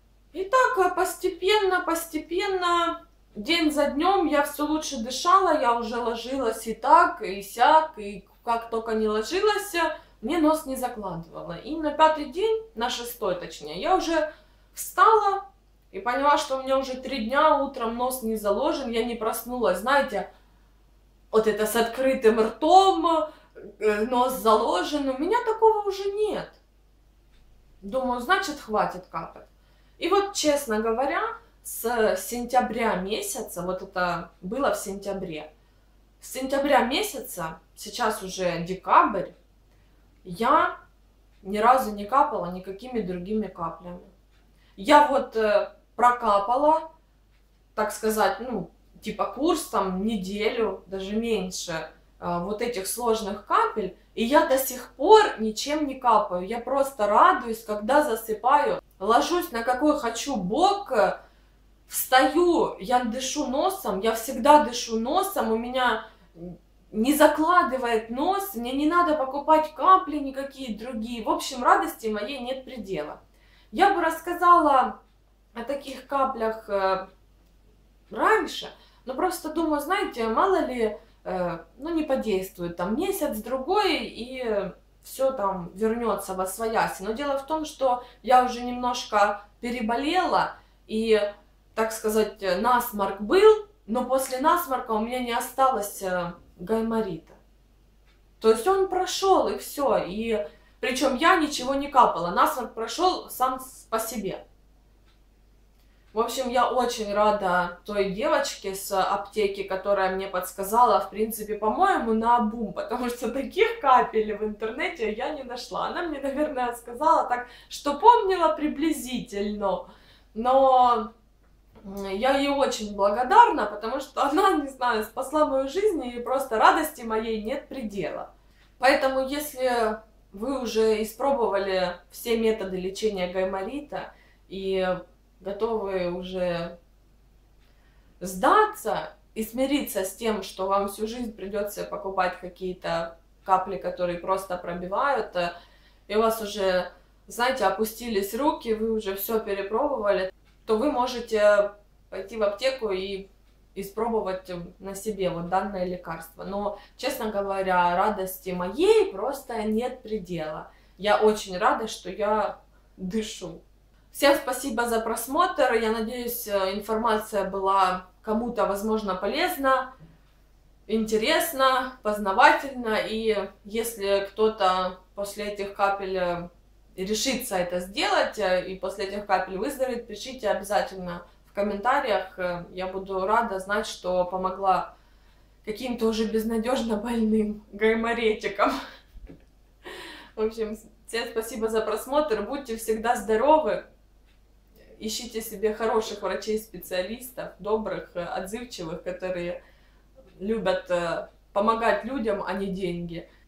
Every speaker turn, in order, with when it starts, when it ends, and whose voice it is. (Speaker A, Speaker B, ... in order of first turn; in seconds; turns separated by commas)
Speaker A: 0.3-20.3, Speaker A: 21.3-26.6, Speaker A: 27.8-35.5, Speaker A: 36.2-39.4, Speaker A: 40.2-40.8, Speaker A: 41.4-44.1, Speaker A: 44.8-46.9, Speaker A: 47.7-61.2, Speaker A: 61.9-73.2, Speaker A: 73.7-75.0, Speaker A: 75.5-77.1, Speaker A: 78.1-97.4, Speaker A: 98.4-104.4, Speaker A: 106.1-121.1, Speaker A: 121.8-136.8, Speaker A: 138.2-145.5, Speaker A: 146.1-169.9, Speaker A: 170.9-184.9, Speaker A: 185.6-188.8, Speaker A: 190.3-193.8, Speaker A: 195.0-199.6, Speaker A: 200.4-203.2